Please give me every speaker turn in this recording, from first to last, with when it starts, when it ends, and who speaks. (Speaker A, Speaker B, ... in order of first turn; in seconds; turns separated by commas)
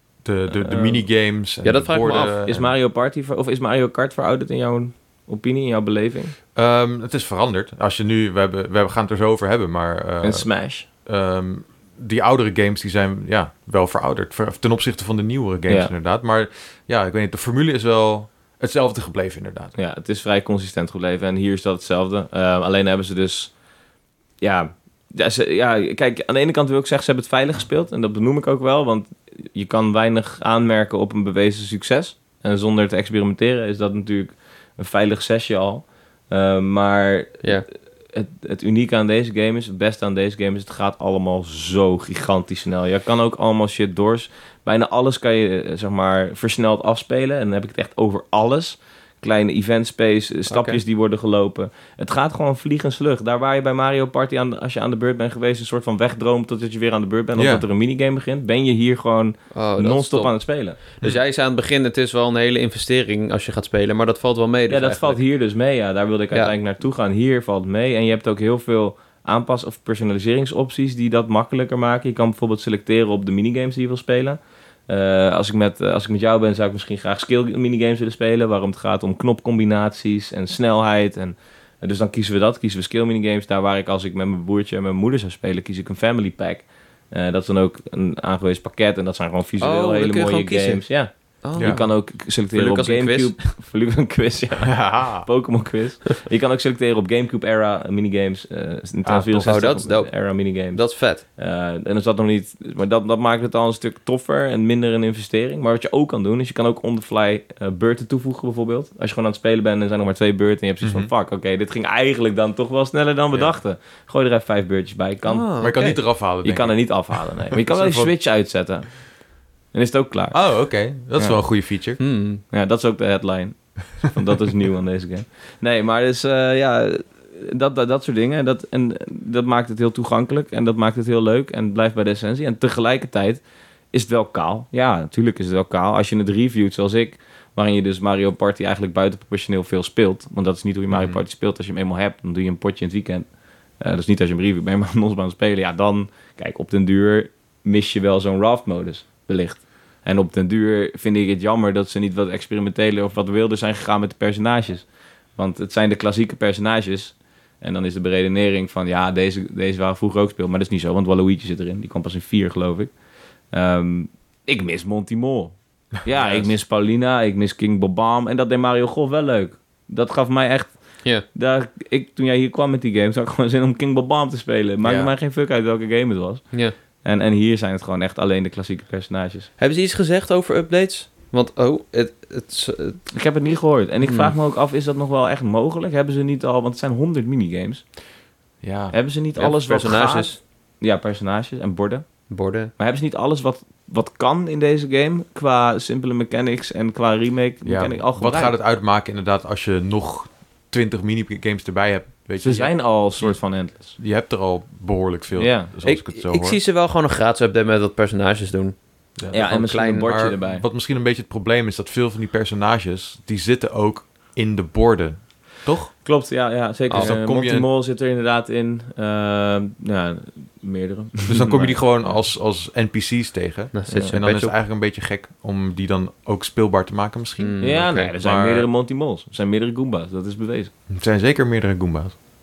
Speaker A: 0.2-2.7, Speaker B: 0.6-1.0, Speaker C: 1.6-2.4, Speaker B: 2.0-6.3, Speaker A: 6.5-10.5, Speaker B: 10.2-10.9, Speaker A: 11.0-19.7, Speaker B: 19.8-23.6, Speaker B: 24.4-37.5, Speaker B: 38.1-60.8, Speaker C: 50.5-50.8, Speaker A: 57.4-57.6, Speaker C: 59.5-65.2, Speaker B: 64.7-115.5, Speaker C: 89.6-90.8, Speaker C: 91.4-93.4, Speaker A: 94.6-95.3, Speaker A: 99.0-99.5, Speaker C: 99.3-101.2, Speaker A: 110.8-111.1, Speaker C: 115.3-116.0, Speaker A: 115.6-118.1, Speaker B: 116.4-118.9, Speaker B: 119.7-120.4, Speaker A: 120.3-122.0, Speaker C: 122.0-122.4, Speaker B: 122.5-143.3, Speaker A: 140.9-141.2, Speaker B: 143.8-162.9, Speaker B: 163.5-179.5, Speaker A: 166.1-166.5, Speaker A: 174.8-175.1, Speaker C: 179.6-183.0, Speaker B: 183.1-187.8, Speaker C: 184.0-184.3, Speaker A: 188.6-189.0, Speaker B: 188.9-192.1, Speaker C: 189.4-190.4, Speaker C: 192.3-192.7, Speaker B: 192.8-198.6, Speaker A: 197.7-206.6, Speaker B: 202.4-204.0, Speaker B: 205.4-205.7, Speaker C: 205.8-210.2, Speaker A: 209.2-215.9, Speaker B: 209.3-210.7, Speaker B: 216.0-221.8, Speaker A: 216.9-217.7, Speaker A: 221.3-228.7, Speaker C: 223.7-224.6, Speaker C: 227.4-228.1, Speaker B: 227.6-230.7, Speaker A: 230.9-232.2